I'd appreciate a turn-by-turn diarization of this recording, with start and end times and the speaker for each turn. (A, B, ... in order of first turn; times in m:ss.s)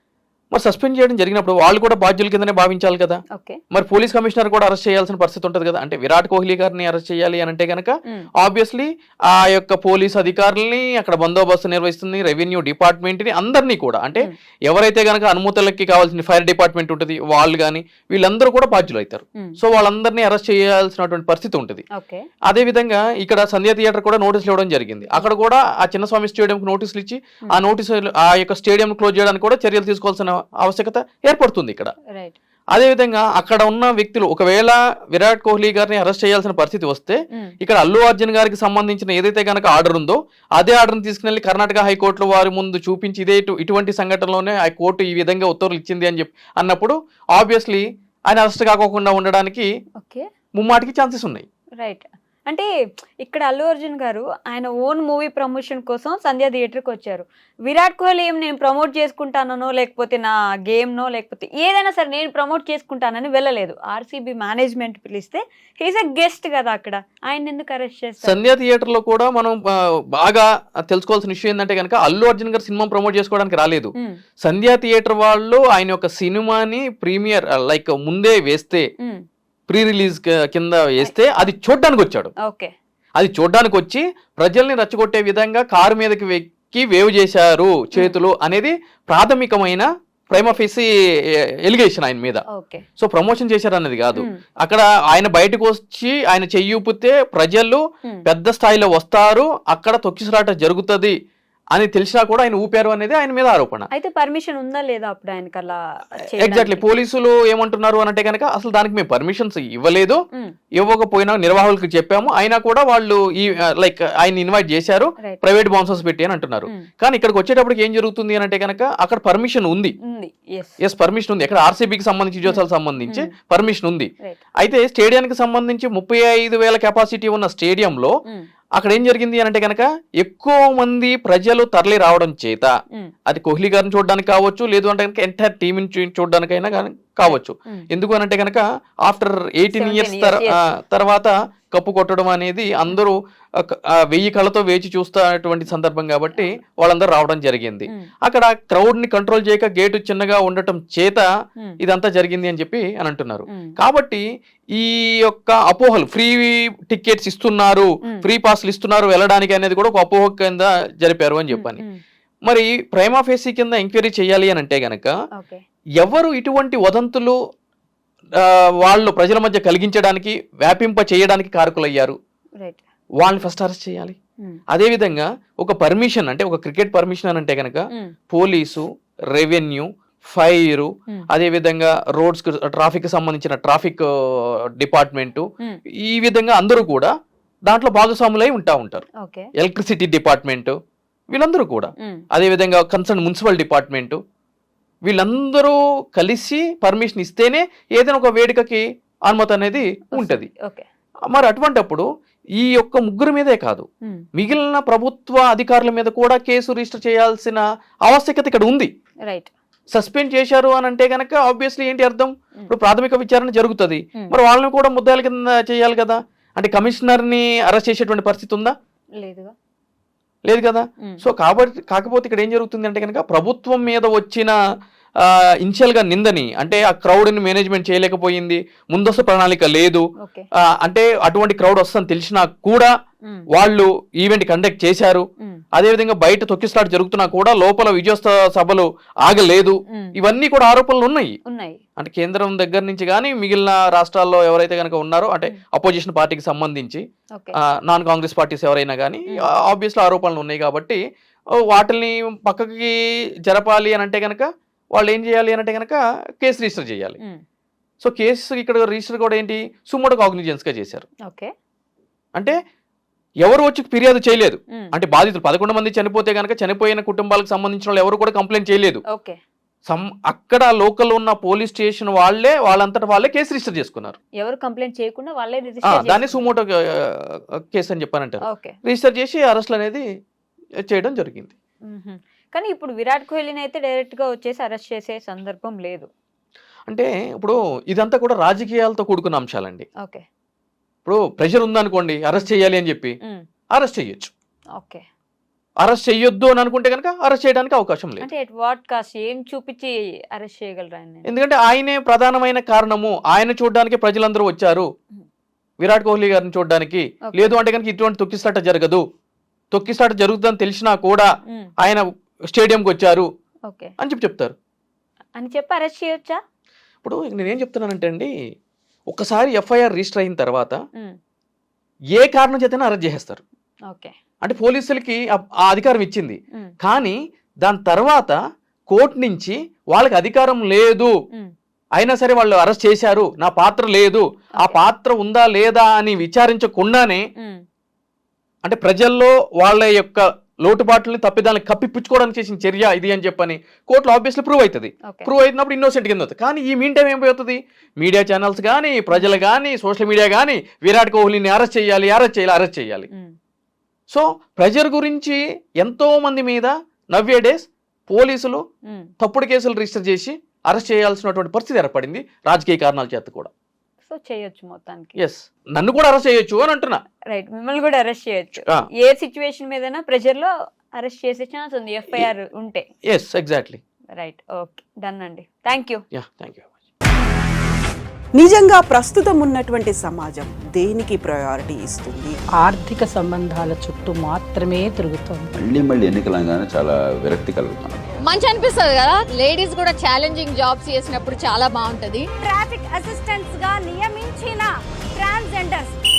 0:00.5-0:21.8 A
0:03.3-0:03.6 B
0:21.9-0:22.3 B
0:22.4-0:31.9 A
0:32.1-0:32.4 B
0:32.7-0:49.7 A
0:50.0-0:50.3 B
0:50.6-0:51.4 A
0:51.8-0:52.7 B
0:53.2-1:08.4 B
1:08.2-1:18.8 A
1:19.0-1:19.2 B
1:19.7-1:22.3 A
1:22.4-1:22.7 B
1:23.2-1:32.4 A
1:32.5-1:32.8 B
1:33.0-1:41.1 A
1:34.1-1:34.4 B
1:41.7-1:43.9 A
1:43.9-1:46.8 B
1:46.2-1:50.2 A
1:50.8-1:59.9 A
2:00.0-2:00.8 B
2:00.8-2:08.1 A
2:02.4-2:03.3 B
2:08.8-2:12.7 A
2:13.3-2:31.2 A
2:17.3-2:17.9 B
2:19.7-2:20.6 B
2:31.8-2:34.2 A
2:33.5-2:33.7 B
2:34.7-2:41.8 A
2:41.5-2:42.0 B
2:42.4-2:45.1 A
2:45.4-2:45.6 B
2:46.0-2:47.3 A
2:48.4-2:52.2 A
2:53.2-2:54.2 A
2:54.7-3:05.4 A
3:06.0-3:07.1 A
3:07.6-3:09.0 A
3:09.2-3:09.5 B
3:09.6-3:10.8 A
3:11.3-3:14.2 A
3:12.0-3:12.2 B
3:15.0-3:20.5 A
3:20.2-3:20.8 B
3:21.3-3:22.0 A
3:22.6-3:28.9 A
3:29.2-3:29.5 B
3:29.9-3:38.7 A
3:39.2-3:39.5 B
3:40.5-3:44.5 A
3:45.2-3:50.0 A
3:50.2-3:50.5 B
3:50.6-3:52.9 A
3:53.5-4:01.4 A
4:01.4-4:01.8 B
4:02.0-4:07.0 A
4:07.5-4:11.0 A
4:11.7-4:17.2 A
4:18.0-4:21.0 A
4:21.2-4:21.5 B
4:23.4-4:29.0 A
4:29.1-4:29.4 B
4:29.9-4:34.2 A
4:34.4-4:36.4 B
4:35.8-4:40.0 A
4:38.4-4:38.8 B
4:40.8-4:41.5 A
4:41.9-4:46.1 B
4:46.9-4:49.9 A
4:51.0-4:53.2 A
4:53.7-4:54.3 A
4:54.8-4:55.0 B
4:55.8-4:58.3 A
4:58.2-5:01.2 B
5:01.2-5:04.9 A
5:05.8-5:09.0 A
5:07.3-5:07.6 B
5:09.7-5:11.3 A
5:11.8-5:13.3 A
5:13.7-5:13.9 B
5:14.0-5:14.5 A
5:15.4-5:16.4 B
5:17.0-5:18.3 A
5:19.1-5:20.8 A
5:22.1-5:23.4 A
5:23.9-5:24.1 B
5:24.4-5:28.4 A
5:28.9-5:31.1 A
5:32.0-5:37.2 A
5:37.4-5:37.6 B
5:38.6-5:53.1 A
5:54.1-5:58.6 A
5:58.8-5:59.1 B
5:59.2-6:03.5 A
6:04.1-6:05.2 B
6:05.2-6:07.0 A
6:07.3-6:12.8 B
6:13.0-6:13.8 A
6:14.1-6:16.0 B
6:16.1-6:16.8 A
6:18.3-6:22.4 C
6:22.6-6:25.5 D
6:25.5-6:28.0 E
6:28.2-6:32.3 F
6:32.4-6:36.0 G